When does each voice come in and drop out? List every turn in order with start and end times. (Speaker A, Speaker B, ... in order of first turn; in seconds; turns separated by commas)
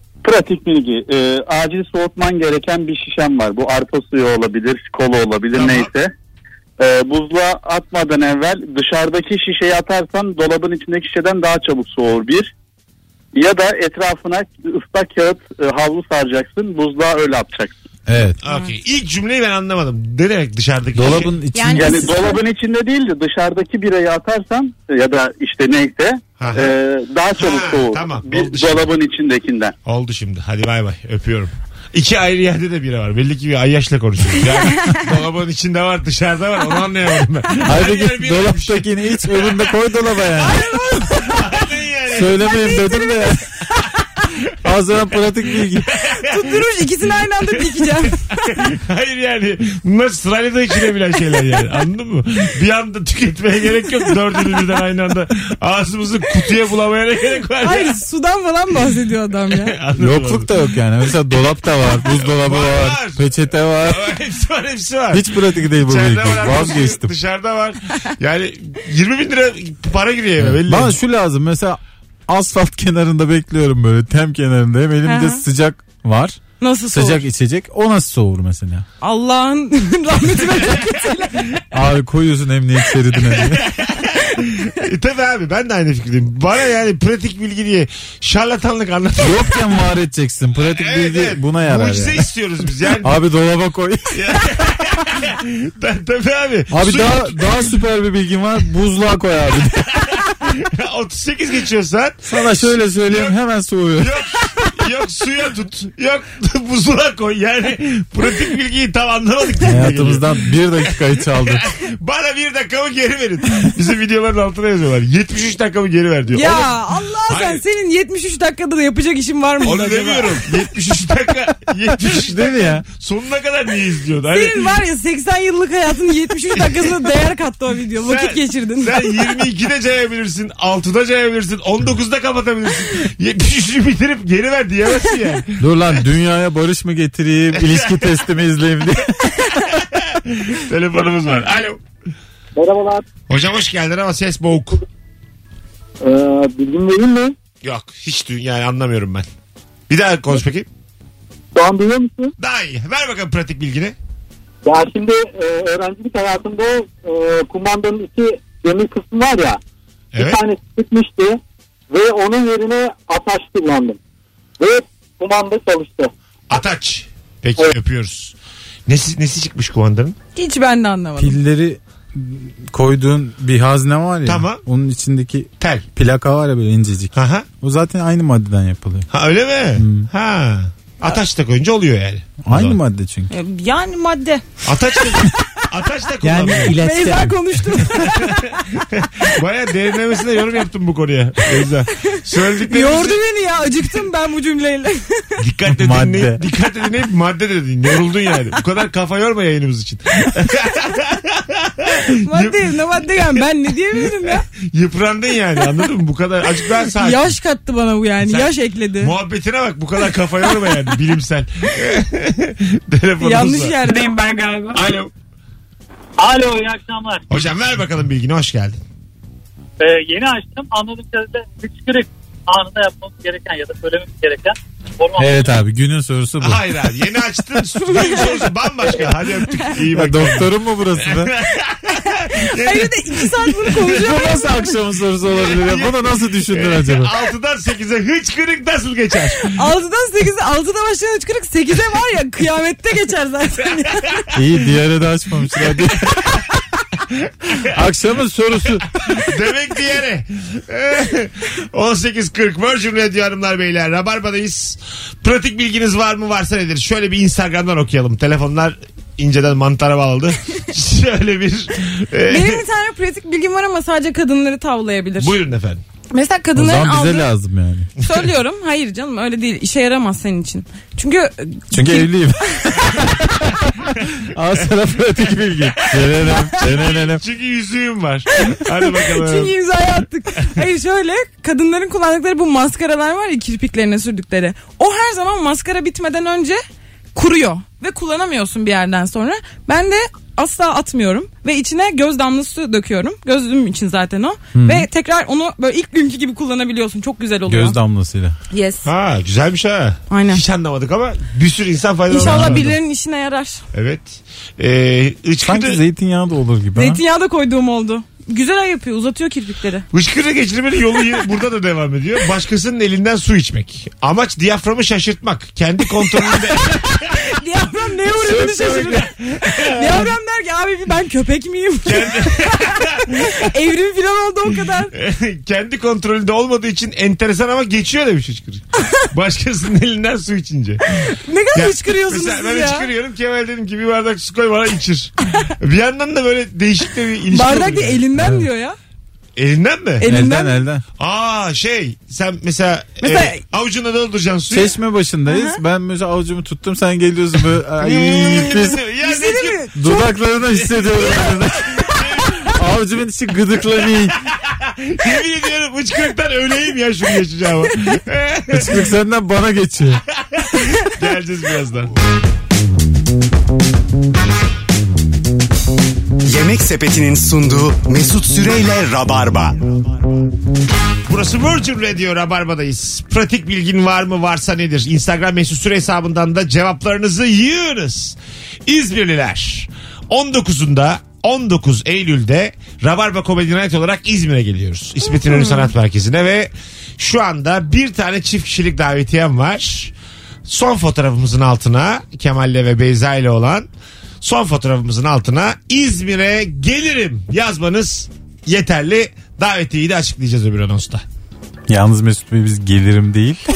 Speaker A: 0.2-6.1, Speaker B: 5.5-5.9, Speaker A: 6.8-12.5, Speaker A: 13.3-17.8, Speaker C: 18.1-18.4, Speaker B: 18.4-21.4, Speaker C: 20.9-22.2, Speaker D: 21.5-22.4, Speaker A: 21.7-29.8, Speaker B: 26.4-26.7, Speaker B: 27.4-28.9, Speaker B: 29.9-39.7, Speaker D: 34.6-35.0, Speaker C: 37.6-40.7, Speaker D: 40.4-41.6, Speaker B: 40.4-42.5, Speaker C: 42.1-43.5, Speaker D: 42.5-43.3, Speaker C: 44.6-45.9, Speaker B: 45.7-46.6, Speaker D: 46.2-48.3, Speaker B: 47.5-58.0, Speaker D: 57.6-59.8, Speaker B: 59.5-60.5, Speaker C: 60.0-64.1, Speaker B: 62.2-71.0, Speaker C: 65.1-67.1, Speaker C: 70.4-78.9, Speaker D: 75.0-75.4, Speaker D: 76.6-77.2, Speaker D: 79.0-81.5, Speaker C: 81.7-83.7, Speaker B: 83.5-89.6, Speaker C: 89.2-92.2, Speaker B: 90.7-93.2, Speaker C: 93.0-94.2, Speaker B: 94.1-97.8, Speaker C: 96.7-100.0, Speaker B: 100.0-103.3, Speaker C: 102.3-104.6, Speaker B: 104.0-117.6, Speaker C: 109.6-111.7, Speaker D: 116.3-120.4, Speaker B: 119.6-124.7, Speaker C: 122.0-122.8, Speaker D: 124.3-129.2, Speaker B: 126.5-126.9, Speaker B: 128.0-135.6, Speaker C: 135.6-139.8, Speaker B: 137.5-138.2, Speaker B: 139.9-141.8, Speaker B: 143.3-144.8, Speaker A: 146.1-147.3, Speaker B: 147.6-149.3, Speaker B: 149.9-150.7, Speaker A: 151.6-152.3, Speaker B: 152.4-154.0, Speaker A: 154.7-159.6, Speaker B: 160.1-160.4, Speaker A: 160.2-161.3, Speaker A: 161.9-164.0, Speaker A: 164.6-166.1, Speaker B: 166.5-168.4, Speaker B: 168.9-170.2, Speaker D: 170.3-171.4, Speaker C: 171.2-179.1, Speaker B: 174.2-174.6, Speaker B: 175.6-175.8, Speaker B: 177.2-177.5, Speaker B: 179.1-182.8, Speaker C: 179.8-180.1, Speaker C: 182.4-183.3, Speaker D: 183.3-185.1, Speaker B: 184.6-186.8, Speaker C: 186.2-187.8, Speaker D: 186.8-188.5, Speaker B: 188.0-193.2, Speaker D: 192.7-195.3, Speaker B: 195.4-202.7, Speaker C: 195.7-196.4, Speaker D: 202.2-204.4, Speaker B: 204.0-207.4, Speaker D: 206.9-209.1, Speaker B: 208.2-213.8, Speaker D: 213.2-214.3, Speaker B: 214.7-215.1, Speaker E: 216.2-217.2, Speaker B: 217.3-218.8, Speaker E: 219.8-225.5, Speaker C: 225.2-226.6, Speaker B: 226.4-234.1, Speaker D: 227.8-228.5, Speaker C: 229.9-231.3, Speaker D: 232.3-234.7, Speaker C: 234.0-237.1, Speaker B: 235.3-239.4, Speaker D: 239.4-244.3, Speaker C: 244.3-246.6, Speaker B: 247.5-247.8, Speaker C: 247.7-249.1, Speaker B: 249.2-262.6, Speaker D: 262.3-265.4, Speaker B: 265.2-265.8, Speaker D: 266.1-267.3, Speaker C: 266.6-267.9, Speaker D: 268.0-272.9, Speaker C: 271.7-273.5, Speaker C: 274.2-277.2, Speaker B: 276.6-279.5, Speaker D: 278.4-286.6, Speaker D: 287.1-297.8, Speaker C: 294.6-294.9, Speaker C: 297.5-298.4, Speaker D: 298.5-298.9, Speaker B: 298.8-302.7, Speaker D: 300.1-300.4, Speaker D: 302.1-303.6, Speaker C: 302.2-302.7, Speaker B: 303.7-305.8, Speaker C: 305.4-307.0, Speaker D: 306.8-309.9, Speaker B: 309.9-317.2, Speaker D: 316.9-324.9, Speaker C: 318.1-319.1, Speaker B: 319.0-319.9, Speaker B: 321.9-323.5, Speaker B: 324.9-330.9, Speaker D: 331.0-332.9, Speaker B: 331.5-338.1, Speaker D: 337.3-338.8, Speaker C: 338.1-338.5, Speaker B: 339.4-340.1, Speaker D: 340.0-340.6, Speaker C: 340.1-340.8, Speaker B: 341.0-344.8, Speaker D: 343.0-343.4, Speaker C: 344.5-348.8, Speaker D: 345.3-345.6, Speaker B: 347.8-349.7, Speaker D: 349.0-350.1, Speaker C: 349.8-351.7, Speaker B: 350.6-351.1, Speaker B: 351.7-352.5, Speaker D: 351.8-352.3, Speaker C: 352.5-354.2, Speaker B: 354.3-358.8, Speaker C: 358.5-360.0, Speaker B: 360.3-361.9, Speaker F: 366.3-369.7, Speaker B: 371.1-389.9, Speaker D: 385.1-385.7, Speaker B: 390.5-393.7, Speaker B: 394.2-401.0, Speaker C: 401.7-403.4